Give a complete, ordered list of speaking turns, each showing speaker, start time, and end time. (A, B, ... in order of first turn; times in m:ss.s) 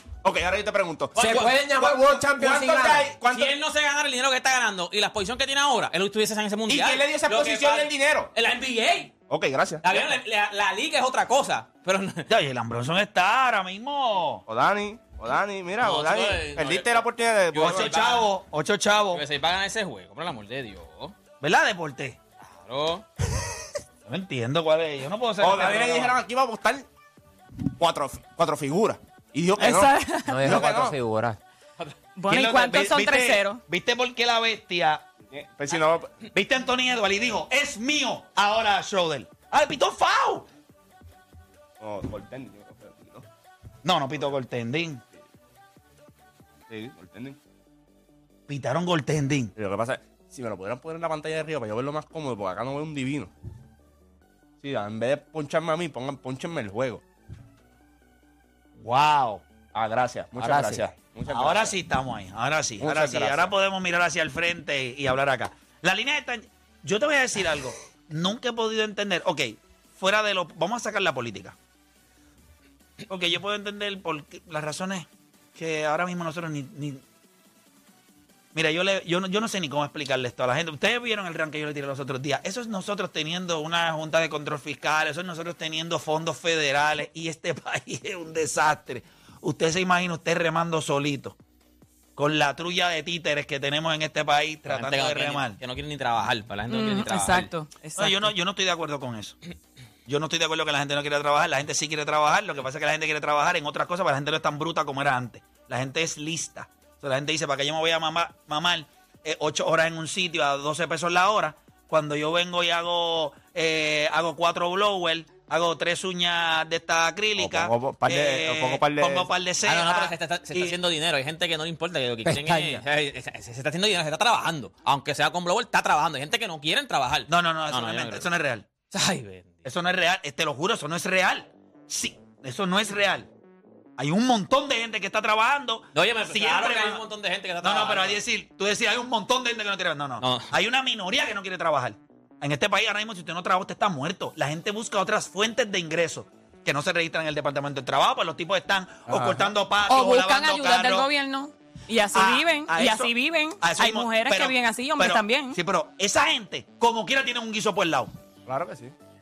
0:00.2-0:03.6 A
0:01.2-0:01.6 B
0:01.2-0:03.1 C
0:03.2-0:09.1 B
0:06.7-0:08.3 A
0:09.3-0:10.1 A
0:09.8-0:12.3 B
0:12.3-0:14.4 D
0:14.5-0:18.2 A
0:15.8-0:18.2 B
0:17.6-0:19.2 D
0:19.1-0:21.1 B
0:21.4-0:22.2 D
0:22.5-0:23.0 B
0:24.1-0:26.2 D
0:25.4-0:26.9 A
0:27.6-0:31.0 A
0:29.6-0:30.5 E
0:30.3-0:31.4 C
0:32.2-0:33.6 E
0:32.3-0:33.4 A
0:33.7-0:35.0 D
0:35.3-0:36.2 A
0:36.3-0:40.5 D
0:41.8-0:43.3 A
0:43.8-0:45.0 D
0:46.7-0:47.4 A
0:48.5-0:49.5 D
0:49.6-0:53.3 A
0:54.6-0:57.0 A
0:58.8-0:59.4 D
0:59.7-1:01.8 A
1:00.4-1:00.8 C
1:01.3-1:11.6 D
1:02.8-1:03.5 A
1:13.1-1:17.0 D
1:18.5-1:31.4 D
1:32.2-1:35.6 D
1:34.7-1:37.5 B
1:36.7-1:38.3 E
1:38.0-1:39.4 D
1:40.1-2:00.8 D
1:57.4-1:59.3 A
1:59.6-2:08.3 B
2:02.2-2:02.8 C
2:07.3-2:08.7 D
2:08.9-2:09.6 B
2:09.6-2:13.3 D
2:14.0-2:17.0 D
2:15.9-2:18.2 B
2:17.6-2:31.1 D
2:20.2-2:20.5 B
2:29.1-2:29.5 A
2:29.9-2:35.6 E
2:32.1-2:38.1 D
2:38.5-2:38.9 A